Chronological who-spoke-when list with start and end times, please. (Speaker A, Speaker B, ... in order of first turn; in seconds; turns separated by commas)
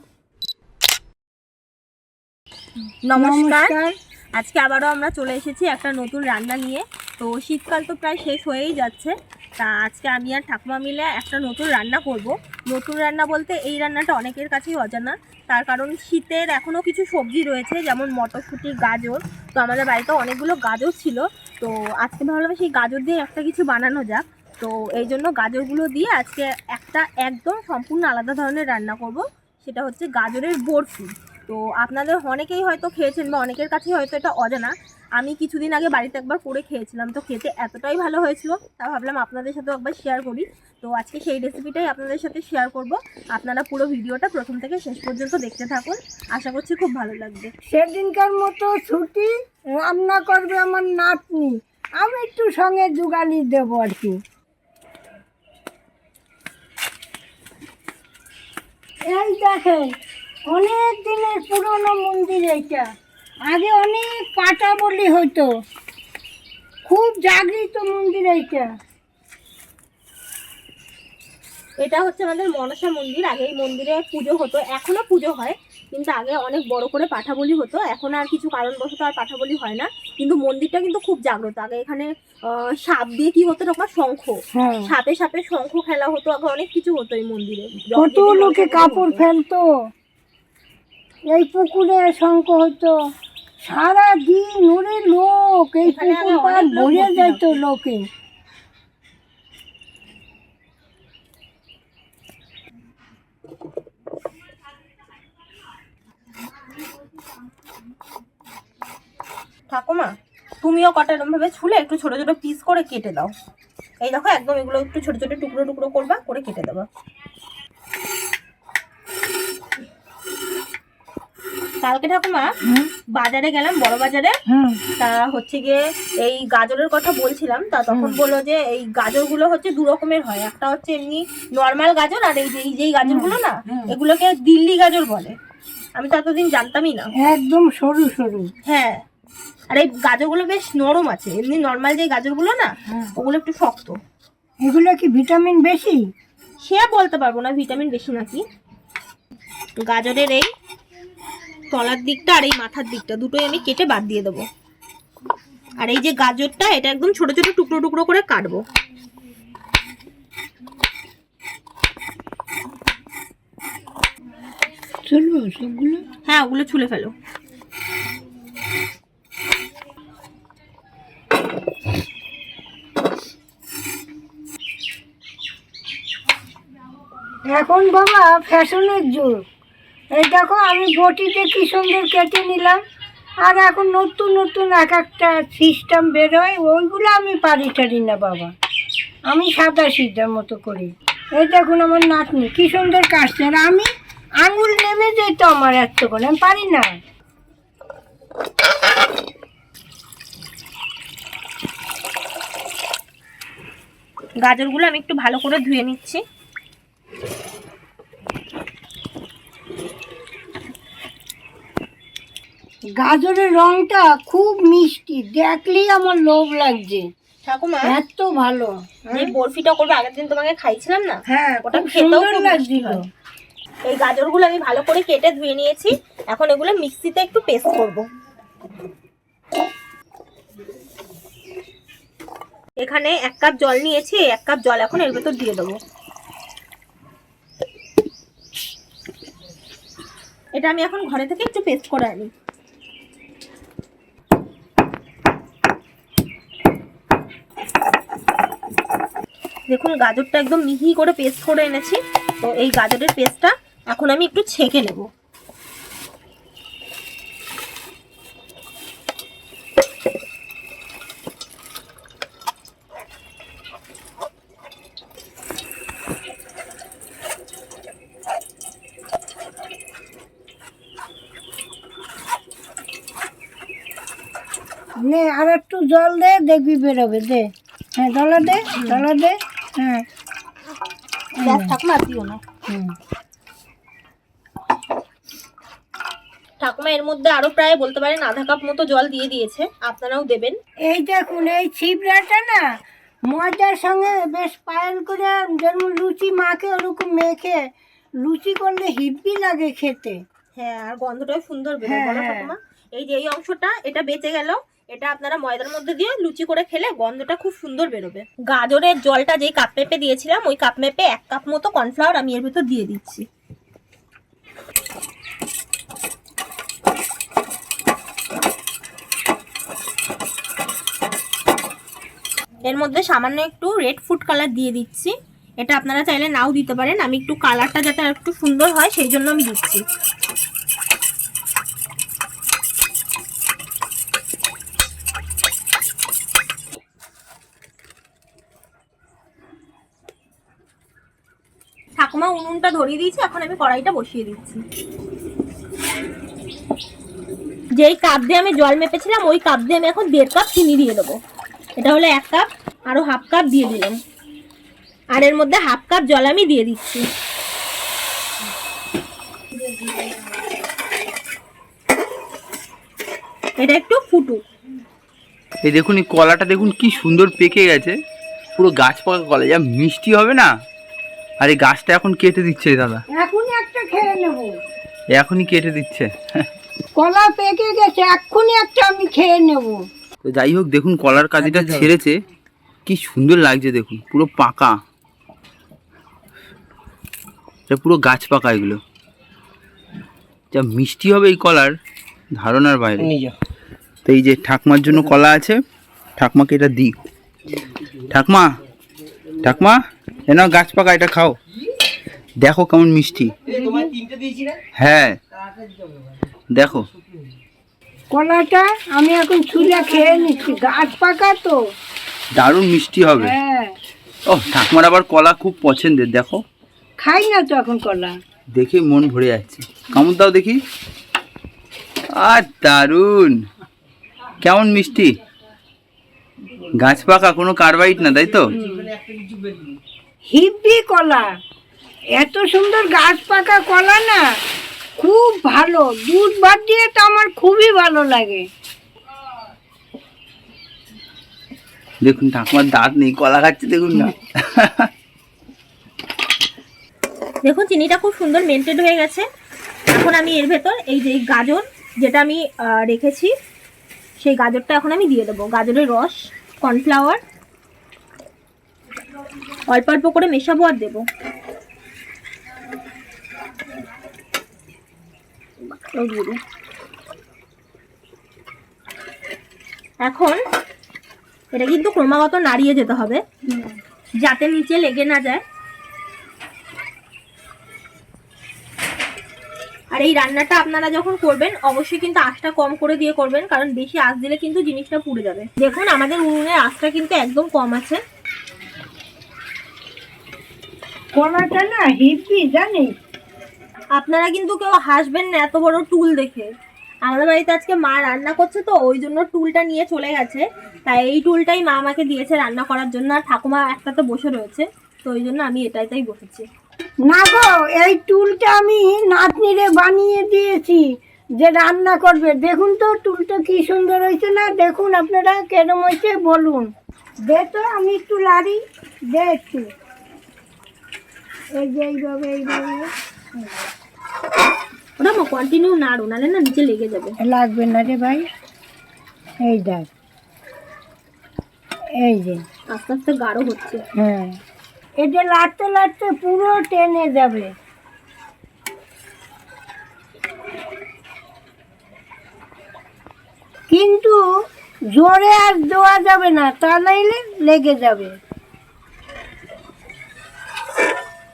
Speaker A: 3.0-3.7, Speaker B: 3.1-3.9, Speaker A: 4.3-47.5, Speaker B: 47.7-54.2, Speaker B: 59.1-59.9, Speaker B: 60.5-62.8, Speaker B: 63.5-65.5, Speaker B: 66.8-68.7, Speaker A: 71.8-84.4, Speaker B: 84.5-84.9, Speaker A: 84.9-89.2, Speaker B: 87.9-89.7, Speaker B: 91.3-92.9, Speaker B: 93.6-98.0, Speaker A: 95.8-97.6, Speaker A: 109.7-110.1, Speaker A: 110.6-113.3, Speaker A: 114.0-116.9, Speaker A: 121.8-122.5, Speaker B: 122.6-122.9, Speaker A: 123.2-124.3, Speaker B: 124.5-124.8, Speaker A: 125.0-135.3, Speaker B: 127.9-128.2, Speaker B: 133.0-133.9, Speaker A: 136.0-137.1, Speaker B: 137.2-138.5, Speaker A: 138.7-139.0, Speaker A: 139.7-144.0, Speaker B: 144.6-146.0, Speaker A: 146.6-148.4, Speaker A: 149.8-150.5, Speaker A: 151.7-154.4, Speaker A: 155.8-158.6, Speaker B: 165.1-166.0, Speaker A: 166.2-167.1, Speaker B: 177.5-179.4, Speaker B: 180.1-182.8, Speaker B: 183.4-188.5, Speaker B: 189.3-193.9, Speaker B: 194.4-196.9, Speaker A: 204.4-206.2, Speaker B: 213.0-217.0, Speaker A: 217.4-217.8, Speaker B: 217.9-219.3, Speaker A: 219.1-223.0, Speaker B: 221.3-223.0, Speaker A: 223.9-228.0, Speaker A: 232.8-235.8, Speaker A: 240.6-242.3, Speaker A: 249.7-255.1, Speaker B: 275.0-280.0, Speaker A: 278.7-279.0, Speaker B: 281.4-281.7, Speaker A: 281.4-282.4, Speaker A: 286.6-290.6, Speaker B: 290.9-292.7, Speaker B: 293.3-297.6, Speaker B: 298.2-300.2, Speaker A: 300.6-313.2, Speaker B: 301.8-302.5, Speaker A: 322.7-329.8, Speaker A: 342.0-344.6, Speaker A: 347.8-351.2, Speaker A: 351.8-354.0, Speaker A: 355.1-357.0, Speaker A: 363.6-364.4, Speaker C: 365.6-367.9, Speaker C: 368.6-370.5, Speaker C: 371.4-373.0, Speaker B: 373.1-374.5, Speaker C: 375.1-376.4, Speaker B: 377.0-379.8, Speaker C: 380.2-382.1, Speaker C: 382.9-384.8, Speaker C: 387.7-388.8, Speaker C: 390.5-391.7, Speaker C: 392.4-393.1, Speaker C: 394.0-395.6, Speaker C: 396.2-397.0, Speaker C: 398.1-398.5, Speaker C: 399.4-401.4, Speaker C: 402.4-403.3, Speaker B: 403.5-403.9, Speaker C: 404.8-405.2, Speaker C: 406.5-406.8, Speaker B: 408.1-411.6, Speaker C: 412.4-413.3, Speaker B: 413.2-413.7, Speaker C: 414.3-416.4, Speaker B: 417.0-418.1, Speaker C: 418.6-420.6, Speaker C: 422.2-423.3, Speaker C: 424.4-425.1, Speaker C: 426.8-428.5, Speaker B: 428.5-428.9, Speaker B: 430.3-431.3, Speaker B: 432.2-434.2, Speaker B: 435.0-438.4, Speaker C: 442.0-444.9, Speaker A: 447.4-449.2, Speaker A: 449.9-453.3, Speaker A: 454.2-457.2, Speaker A: 459.7-461.0, Speaker A: 465.6-466.4, Speaker A: 470.1-470.4, Speaker A: 471.5-473.2, Speaker A: 474.2-475.4, Speaker A: 479.9-488.0, Speaker B: 491.1-492.9, Speaker A: 494.0-496.5, Speaker A: 497.1-506.4, Speaker B: 507.1-510.8, Speaker B: 511.4-516.7, Speaker B: 517.3-518.6, Speaker B: 519.1-519.7, Speaker B: 521.5-522.9, Speaker A: 525.0-527.1, Speaker B: 527.2-528.2, Speaker B: 529.4-529.9, Speaker B: 532.0-532.4, Speaker A: 532.7-533.8, Speaker B: 534.0-534.3, Speaker B: 535.0-537.5, Speaker B: 543.7-544.2, Speaker B: 544.9-548.1